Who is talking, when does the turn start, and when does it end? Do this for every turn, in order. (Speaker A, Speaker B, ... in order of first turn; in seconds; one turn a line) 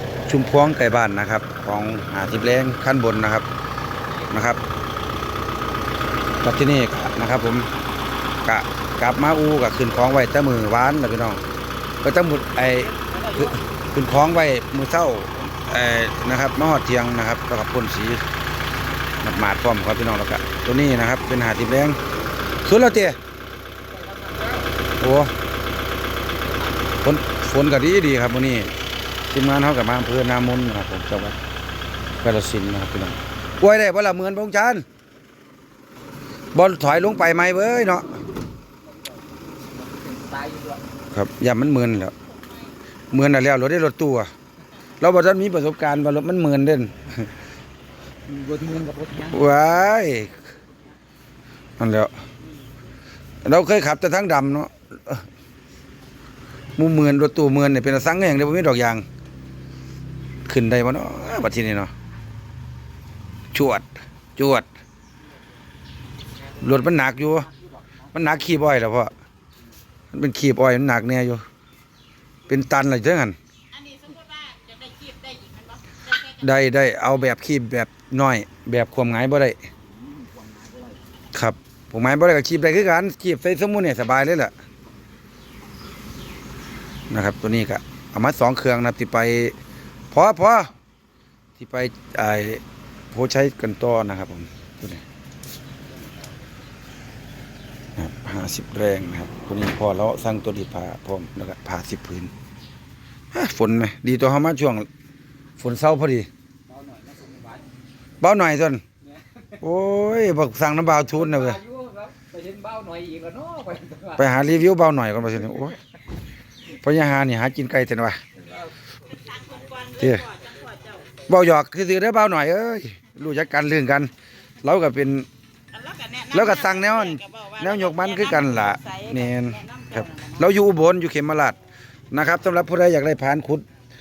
Speaker A: 0.3-3.5
Speaker A: 4.3-4.6
Speaker A: 6.4-7.7
Speaker A: 8.4-11.4
Speaker A: 12.0-18.2
Speaker A: 19.2-22.0
Speaker A: 22.6-23.2
Speaker B: 24.0-24.6
Speaker A: 25.0-25.3
Speaker A: 27.0-28.7
Speaker A: 29.3-31.4
Speaker A: 32.2-34.8
Speaker A: 36.5-38.2
Speaker B: 39.7-40.8
Speaker A: 41.1-42.1
Speaker A: 43.1-44.3
Speaker A: 45.0-47.3
Speaker B: 48.3-49.3
Speaker A: 49.2-50.4
Speaker A: 51.8-52.1
Speaker A: 53.4-55.2
Speaker A: 56.8-59.0
Speaker A: 60.5-61.9
Speaker A: 63.5-64.7
Speaker A: 66.6-67.5
Speaker A: 68.1-69.1
Speaker A: 70.1-71.4
Speaker A: 72.5-73.3
Speaker C: 73.7-76.0
Speaker A: 76.2-79.6
Speaker B: 80.4-80.9
Speaker A: 81.3-84.5
Speaker A: 87.1-89.5
Speaker A: 90.1-90.7
Speaker A: 91.6-95.0
Speaker B: 95.9-96.3
Speaker A: 98.0-102.3
Speaker A: 103.3-104.9
Speaker A: 105.6-106.3
Speaker B: 106.7-107.7
Speaker A: 108.2-108.8
Speaker A: 109.6-111.6
Speaker B: 111.4-114.2
Speaker A: 114.1-115.8
Speaker A: 116.8-118.2
Speaker C: 119.2-121.0
Speaker A: 120.0-120.4
Speaker A: 121.2-124.1
Speaker A: 124.6-125.3
Speaker C: 125.7-126.3
Speaker A: 126.3-131.6
Speaker A: 132.1-133.7